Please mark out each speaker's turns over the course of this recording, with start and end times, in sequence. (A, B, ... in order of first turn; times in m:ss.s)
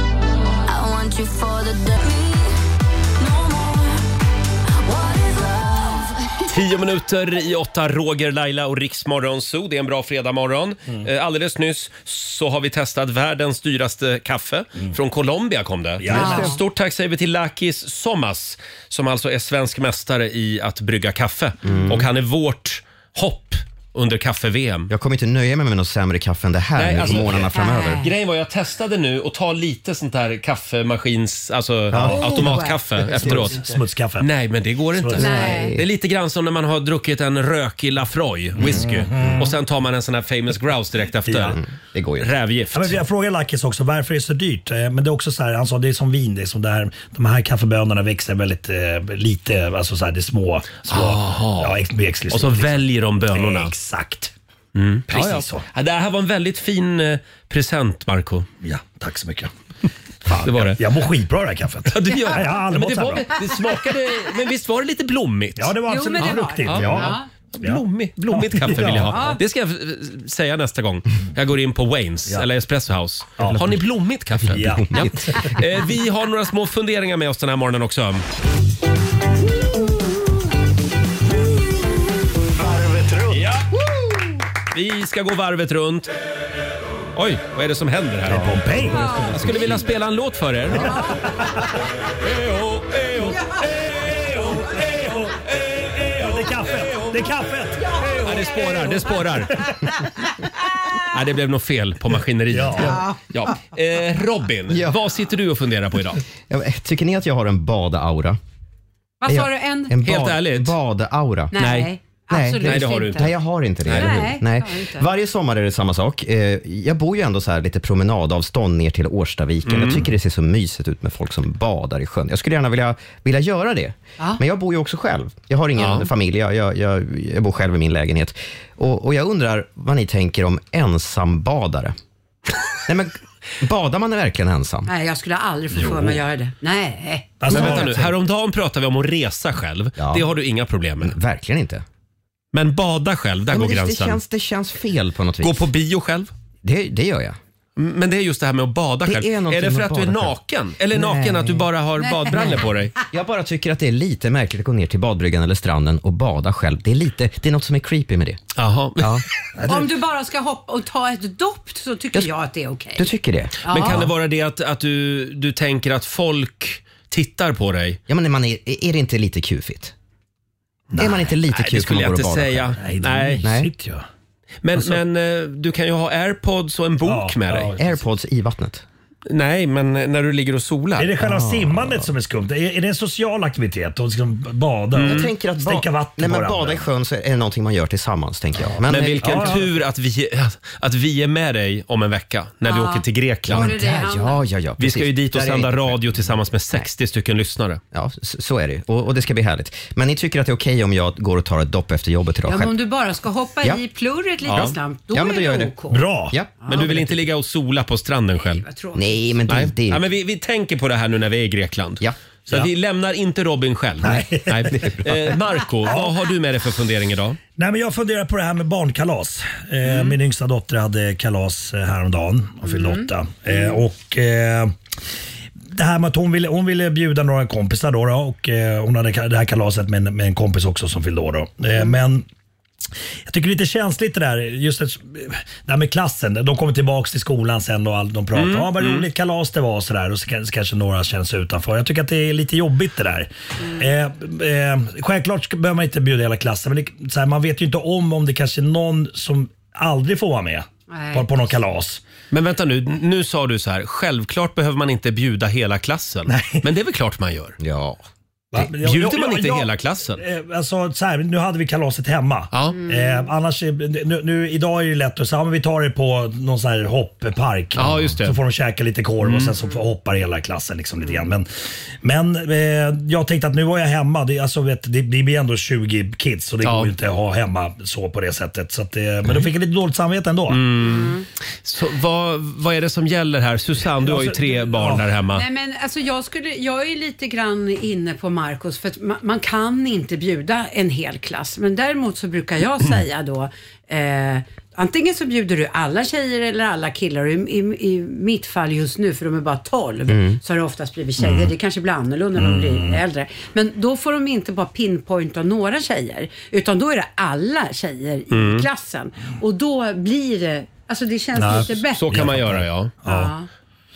0:00.6-0:02.5 A
0:03.2-0:04.0 A
0:04.8-0:06.6 A
0:06.5-0:24.9 B
0:16.0-0:16.5 C
0:16.1-0:16.6 D
0:16.1-0:16.4 E
0:21.6-0:22.1 E
0:24.9-0:28.1 E
0:26.8-0:41.6 B
0:27.5-0:28.1 D
0:31.9-0:32.7 E
0:32.0-0:32.3 C
0:32.1-0:32.8 D
0:33.1-0:34.3 C
0:34.9-0:35.5 C
0:35.2-0:35.7 D
0:35.2-0:35.9 E
0:38.6-0:39.5 C
0:41.2-0:41.6 C
0:41.5-0:42.3 E
0:42.2-0:43.0 B
0:42.7-0:54.3 C
0:50.9-0:53.7 B
0:54.8-0:58.5 B
0:55.1-0:55.6 C
0:58.6-0:59.5 C
1:00.2-1:03.3 C
1:00.4-1:00.8 B
1:01.9-1:18.2 B
1:05.6-1:09.2 C
1:05.9-1:07.3 D
1:09.0-1:09.4 D
1:13.4-1:13.7 C
1:14.4-1:15.5 C
1:22.8-1:23.3 C
1:24.7-1:26.1 B
1:27.1-1:31.0 B
1:28.3-1:29.8 C
1:28.9-1:29.4 D
1:30.7-1:31.7 C
1:30.8-1:31.2 D
1:32.2-1:36.3 B
1:34.9-1:35.3 C
1:36.1-1:38.1 C
1:38.2-1:39.6 B
1:41.1-1:46.2 B
1:42.5-1:43.1 C
1:44.7-1:45.0 E
1:46.5-1:48.4 E
1:49.2-1:49.9 D
1:49.3-1:51.7 E
1:50.0-1:50.7 B
1:51.5-1:53.3 D
1:51.6-1:51.9 B
1:52.3-2:11.9 E
1:52.6-1:53.3 B
1:53.8-1:54.3 B
1:53.9-1:55.1 D
1:59.6-2:00.1 B
2:05.8-2:06.1 B
2:12.8-2:14.9 E
2:14.9-2:17.7 D
2:15.8-2:16.2 C
2:17.4-2:18.1 C
2:17.5-2:21.2 B
2:20.0-2:20.3 E
2:21.0-2:21.8 E
2:22.5-2:24.2 B
2:23.5-2:25.7 E
2:25.4-2:26.3 B
2:26.6-2:27.4 E
2:27.8-2:32.9 B
2:29.0-2:30.3 E
2:30.9-2:31.7 E
2:32.0-2:32.7 D
2:33.1-2:38.4 E
2:38.6-2:39.2 B
2:39.0-2:39.2 E
2:39.6-2:39.9 C
2:39.6-2:43.1 D
2:42.9-2:44.0 E
2:43.6-2:44.0 D
2:43.7-2:48.0 B
2:48.1-2:49.9 E
2:50.9-2:51.3 C
2:51.0-2:52.7 E
2:51.5-2:53.4 B
2:52.8-2:54.0 C
2:53.4-2:53.7 E
2:54.6-2:57.7 B
2:57.0-2:58.0 C
2:57.8-2:58.8 E
2:59.3-3:01.1 B
3:01.0-3:06.8 C
3:01.2-3:02.1 E
3:04.9-3:05.3 B
3:05.0-3:09.6 E
3:08.6-3:09.6 C
3:08.9-3:13.7 B
3:12.6-3:14.4 D
3:13.5-3:16.1 E
3:14.8-3:17.8 B
3:17.9-3:22.7 E
3:22.4-3:26.0 D
3:24.5-3:24.8 B
3:24.6-3:25.7 E
3:25.9-3:26.4 C
3:26.3-3:27.0 E
3:26.6-3:26.9 D
3:26.7-3:28.6 B
3:28.4-3:29.3 D
3:28.9-3:30.0 E
3:29.5-3:37.4 B
3:34.0-3:34.9 C
3:34.7-3:35.2 E
3:37.6-3:44.7 C
3:39.8-3:40.2 B
3:42.6-3:43.8 D
3:45.7-3:52.2 C
3:53.3-4:12.0 C
3:58.3-3:59.1 B
4:10.9-4:11.3 D
4:12.3-4:17.6 B
4:16.3-4:16.6 C
4:17.6-4:18.0 E
4:18.5-4:31.5 C
4:18.6-4:20.2 B
4:22.5-4:22.8 B
4:22.7-4:23.3 D
4:27.8-4:28.4 B
4:29.2-4:29.5 B
4:32.0-4:40.6 C
4:36.6-4:36.9 B
4:40.5-4:45.4 B
4:40.8-4:41.2 D
4:44.0-4:45.1 C
4:45.3-5:12.0 D
5:00.1-5:00.4 E
5:01.2-5:01.5 C
5:02.4-5:03.0 C
5:08.3-5:08.6 B
5:11.4-5:13.3 C
5:12.0-5:12.9 B
5:13.0-5:13.5 D